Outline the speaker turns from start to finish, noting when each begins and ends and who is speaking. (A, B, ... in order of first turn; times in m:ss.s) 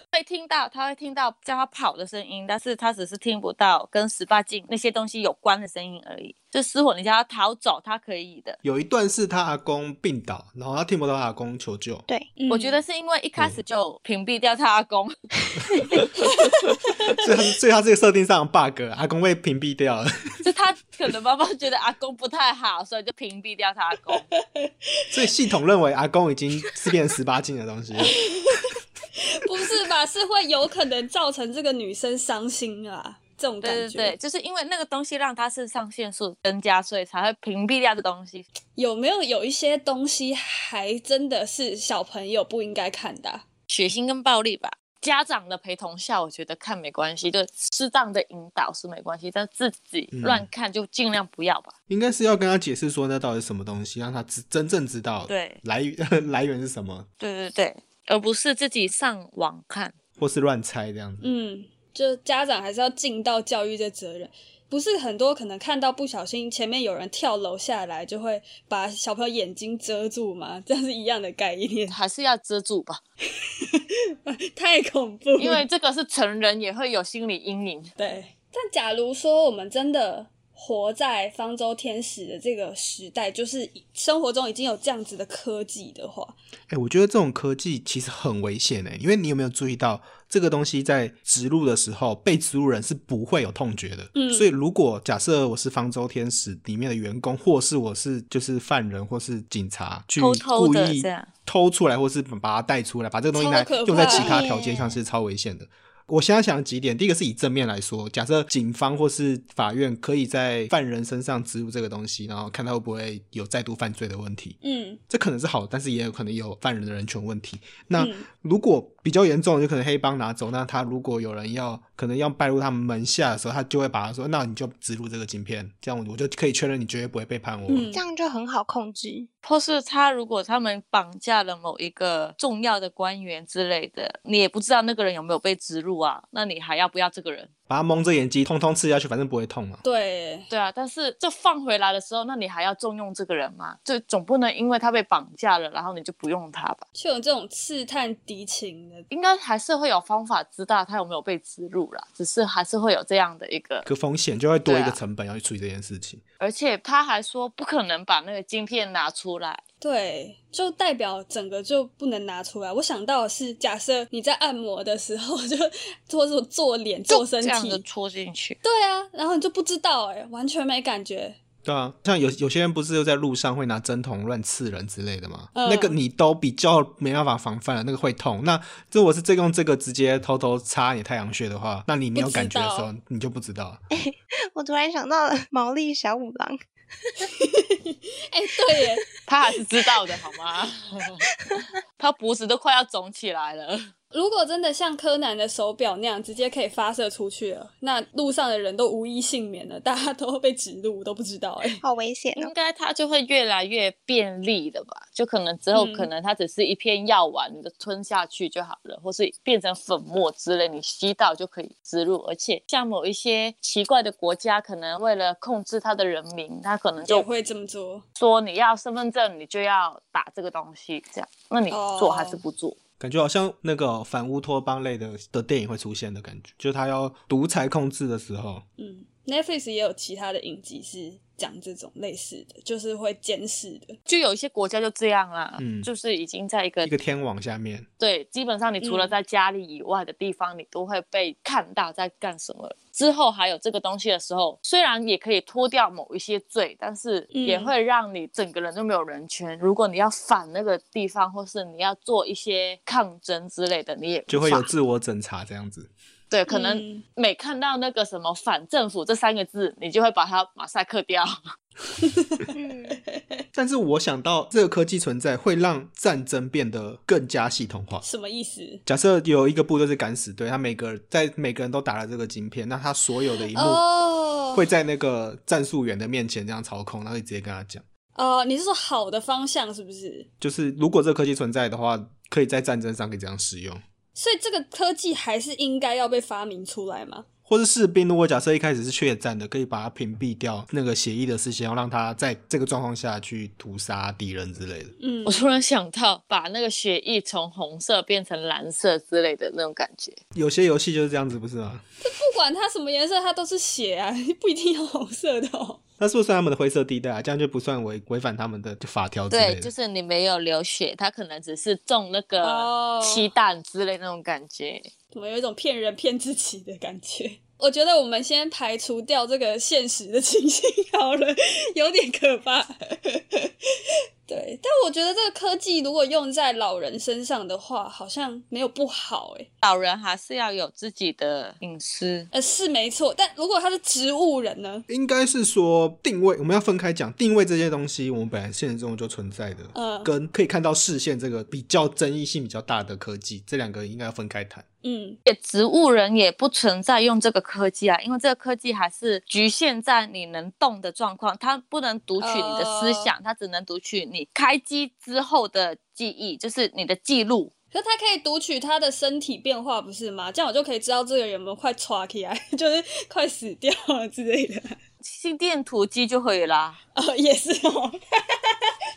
0:00.1-0:08.6 A
0:08.6-0:12.0 B
0:12.4-0:12.8 C
0:12.5-0:16.0 A
0:15.8-0:16.1 B
0:17.0-0:17.3 C
0:17.1-0:20.4 B
0:20.4-0:24.2 A
0:24.4-0:25.2 C
0:25.1-0:28.2 B
0:28.0-0:34.2 C
0:33.6-0:38.4 A
0:38.8-0:43.4 C
0:43.7-0:51.7 A
0:50.1-0:50.5 B
0:51.9-0:57.1 B
0:55.3-0:55.6 A
0:57.2-0:59.9 A
1:00.2-1:01.3 B
1:01.2-1:12.0 C
1:11.9-1:13.0 A
1:13.4-1:15.6 C
1:15.4-1:17.9 A
1:18.0-1:26.4 C
1:26.7-1:54.6 B
1:34.1-1:34.5 C
1:40.2-1:41.3 A
1:43.3-1:44.4 C
1:44.0-1:45.0 D
1:54.6-1:55.0 C
1:55.1-2:07.9 B
1:58.0-1:58.3 C
2:07.7-2:08.0 C
2:07.9-2:09.3 D
2:09.4-2:17.5 A
2:17.7-2:19.8 B
2:19.8-2:20.5 C
2:20.5-2:26.8 A
2:27.0-2:29.1 C
2:29.1-2:33.9 A
2:33.8-2:36.2 B
2:34.6-2:35.0 A
2:36.4-2:39.6 A
2:39.8-2:47.8 C
2:47.1-2:48.6 A
2:48.6-2:51.4 C
2:51.6-3:03.8 B
2:55.5-2:56.0 C
3:02.1-3:02.9 C
3:03.9-3:07.3 D
3:07.2-3:09.1 C
3:09.2-3:11.2 A
3:12.0-3:13.9 A
3:14.1-3:21.8 C
3:21.8-3:22.5 D
3:22.4-3:37.3 A
3:25.7-3:26.1 C
3:37.0-3:38.0 C
3:38.2-3:42.8 A
3:41.7-3:42.4 C
3:43.0-3:48.6 B
3:48.8-3:54.0 C
3:54.1-3:56.9 A
3:55.6-3:55.9 B
3:56.8-3:57.9 B
3:58.0-4:14.7 A
3:58.8-3:59.1 C
4:07.3-4:07.7 C
4:14.3-4:15.9 B
4:16.3-4:21.4 A
4:16.5-4:17.0 C
4:22.0-4:23.4 C
4:22.5-4:23.0 D
4:23.5-4:28.0 B
4:28.0-4:28.8 C
4:28.8-4:33.8 B
4:33.2-4:34.6 C
4:34.5-4:37.8 B
4:38.2-4:40.3 C
4:40.4-4:43.8 B
4:44.2-4:47.2 C
4:47.5-4:54.9 B
4:55.0-4:55.5 C
4:55.2-5:00.2 A
5:00.3-5:01.8 B
5:02.0-5:05.8 C
5:06.0-5:09.7 B
5:09.3-5:14.9 A
5:12.4-5:13.3 C
5:15.1-5:23.5 C
5:24.3-5:29.5 C
5:29.6-5:32.3 A
5:32.3-5:34.8 C
5:34.9-5:44.6 B
5:39.7-5:40.1 C
5:44.8-5:45.2 C
5:45.2-5:57.5 A
5:52.2-5:53.1 C
5:57.7-6:04.8 C
6:05.0-6:06.8 A
6:06.9-6:08.7 C